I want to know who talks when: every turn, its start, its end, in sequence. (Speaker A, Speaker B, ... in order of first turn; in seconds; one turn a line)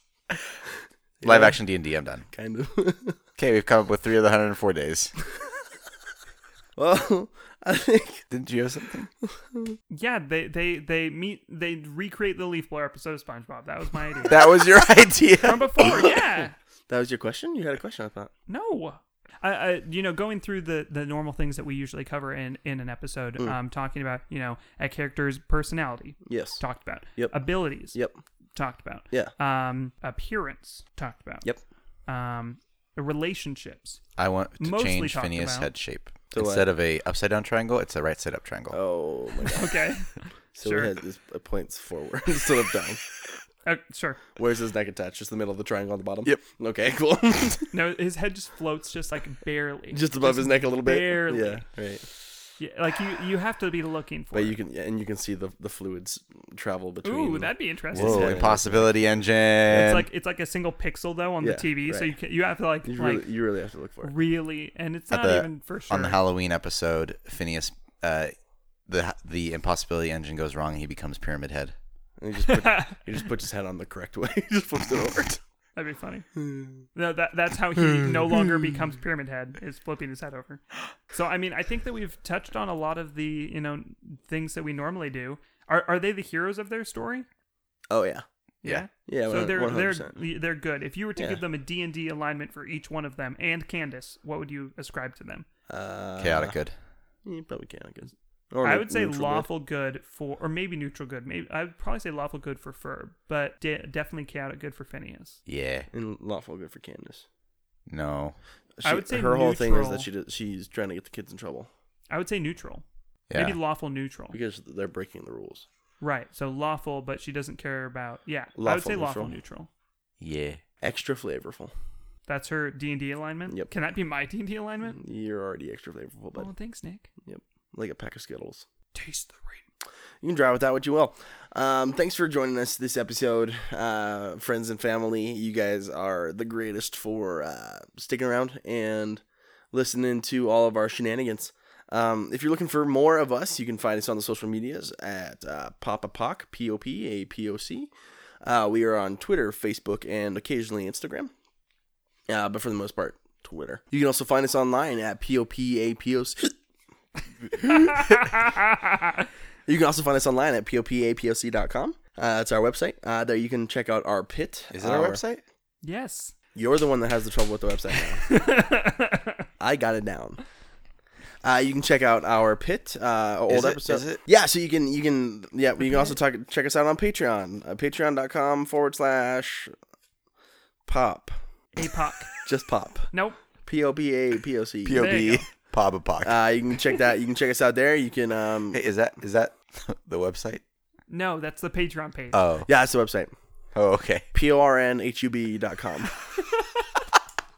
Speaker A: 1.2-1.6
Speaker B: 1.2-2.3
Speaker A: 2.3-3.2
Speaker B: 3.4-5.1
Speaker A: 6.8-8.3
Speaker B: 8.3-9.1
Speaker C: 9.9-14.5
Speaker B: 14.3-15.9
Speaker C: 15.4-16.6
Speaker A: 15.8-16.1
Speaker A: 16.9-18.3
Speaker C: 18.5-28.0
Speaker A: 26.3-26.6
Speaker A: 27.9-28.2
Speaker C: 28.6-31.5
Speaker C: 32.1-34.0
Speaker B: 34.2-38.8
Speaker C: 34.6-35.7
Speaker A: 36.3-36.7
Speaker A: 38.7-39.9
Speaker C: 39.5-40.9
Speaker A: 40.6-43.0
Speaker C: 43.6-44.2
Speaker A: 44.4-47.7
Speaker C: 47.7-51.6
Speaker A: 49.9-52.1
Speaker C: 52.6-54.6
Speaker A: 54.3-59.0
Speaker C: 57.0-58.5
Speaker B: 57.9-60.1
Speaker C: 59.7-63.3
Speaker A: 61.4-62.1
Speaker A: 62.9-64.1
Speaker C: 64.0-66.2
Speaker B: 65.1-68.3
Speaker B: 68.9-71.7
Speaker A: 72.2-75.4
Speaker C: 72.5-73.0
Speaker C: 75.8-76.3
Speaker A: 76.4-76.7
Speaker C: 76.9-87.3
Speaker A: 87.9-88.2
Speaker C: 88.6-95.5
Speaker A: 89.1-90.1
Speaker A: 95.7-96.6
Speaker B: 96.2-96.8
Speaker A: 97.2-99.5
Speaker C: 98.6-105.4
Speaker B: 105.5-105.9
Speaker A: 105.9-107.2
Speaker B: 107.9-108.4
Speaker A: 108.8-111.7
Speaker C: 108.8-110.1
Speaker C: 112.1-114.4
Speaker B: 113.3-113.6
Speaker A: 114.3-115.7
Speaker C: 116.0-119.7
Speaker A: 118.6-119.4
Speaker B: 120.2-120.6
Speaker A: 120.8-121.7
Speaker C: 122.3-125.0
Speaker A: 124.9-126.5
Speaker C: 126.4-127.1
Speaker A: 127.3-128.7
Speaker C: 128.9-129.6
Speaker A: 130.2-147.9
Speaker A: 148.4-151.3
Speaker A: 152.3-156.5
Speaker C: 157.7-159.2
Speaker A: 159.7-165.2
Speaker B: 164.7-165.4
Speaker C: 165.8-166.3
Speaker A: 166.6-168.4
Speaker C: 168.2-169.4
Speaker A: 169.6-170.4
Speaker A: 171.4-179.7
Speaker B: 173.5-174.2
Speaker C: 175.8-176.2
Speaker A: 180.9-181.4
Speaker C: 181.8-182.3
Speaker A: 182.4-183.1
Speaker C: 183.1-183.4
Speaker A: 183.7-185.1
Speaker B: 184.8-186.3
Speaker C: 185.0-185.5
Speaker A: 186.2-188.8
Speaker B: 188.7-190.6
Speaker C: 191.1-192.4
Speaker B: 192.3-192.7
Speaker A: 192.7-193.3
Speaker B: 193.8-194.3
Speaker A: 194.3-196.2